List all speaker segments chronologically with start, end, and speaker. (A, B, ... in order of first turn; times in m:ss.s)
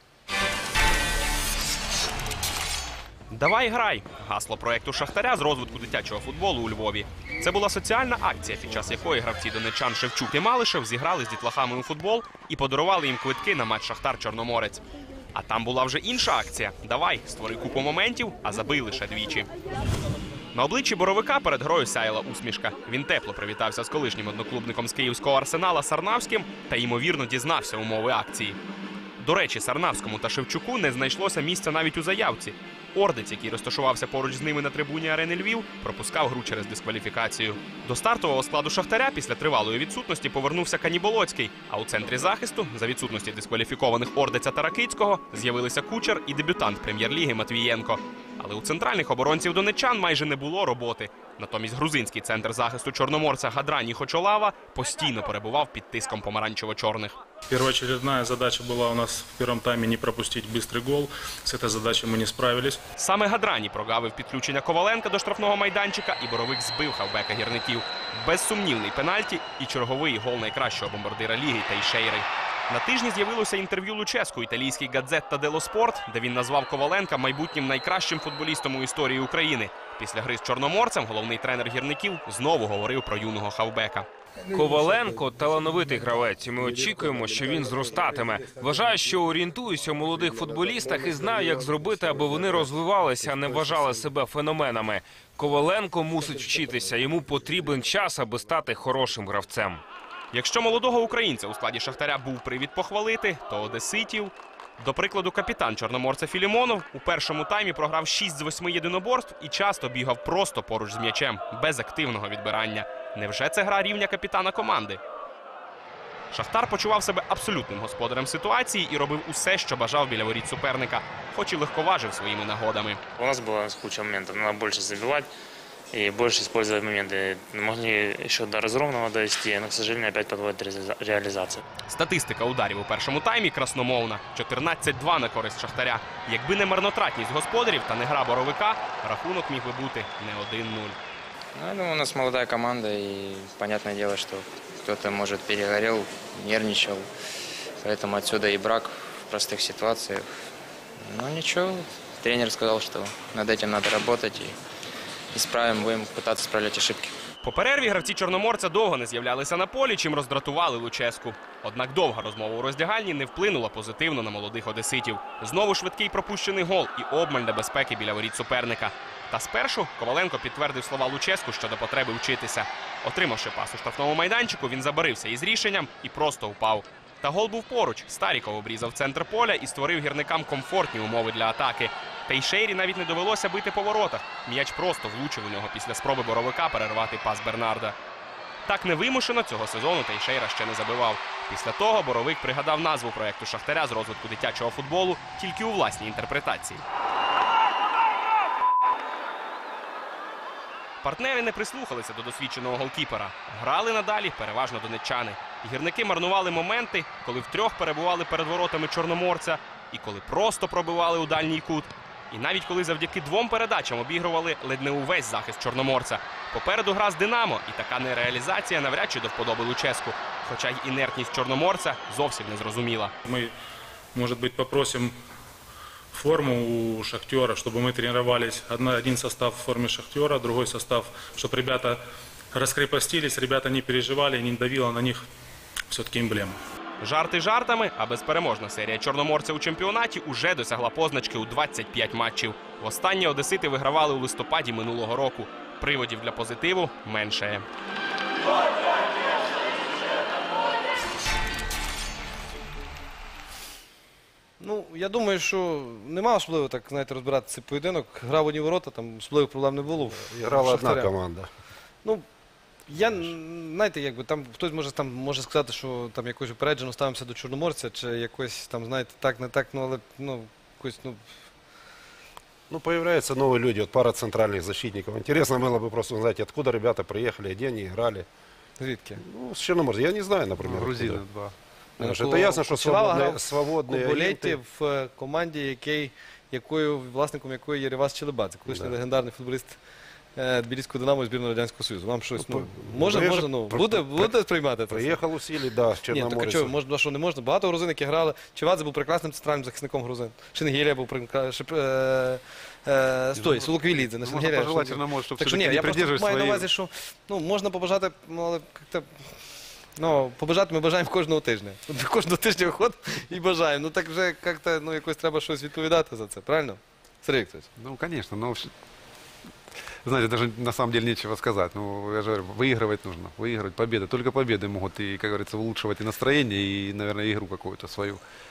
0:03.3-0:14.8 A
0:15.3-0:19.5 A
0:20.5-0:28.6 A
0:29.2-0:57.2 A
0:57.5-1:02.8 B
1:03.0-1:24.1 A
1:24.6-1:39.8 C
1:40.3-1:55.0 A
1:56.3-2:03.0 A
2:03.2-2:05.3 D
2:05.9-2:11.6 D
2:11.9-2:21.0 A
2:21.6-2:27.1 E
2:27.8-2:30.3 E
2:31.0-2:34.6 E
2:35.3-2:37.1 E
2:37.4-3:08.0 A
3:08.7-3:16.8 A
3:21.0-3:43.1 A
3:43.3-3:43.5 B
3:44.2-3:45.1 B
3:46.1-3:52.0 B
3:52.5-3:55.2 B
3:55.9-3:56.6 B
3:57.0-4:07.6 A
4:14.6-4:21.1 F
4:20.2-4:21.5 G
4:22.9-4:31.2 F
4:32.7-4:38.3 G
4:38.8-4:39.2 F
4:39.2-4:41.2 G
4:40.6-4:41.5 H
4:42.0-4:44.6 G
4:42.0-4:49.8 F
4:48.7-4:49.0 G
4:50.4-4:55.2 F
4:52.4-4:54.3 G
4:54.9-4:56.7 G
4:56.1-5:09.2 F
5:03.4-5:06.7 H
5:10.0-5:17.7 F
5:17.8-5:18.7 H
5:20.0-5:28.2 H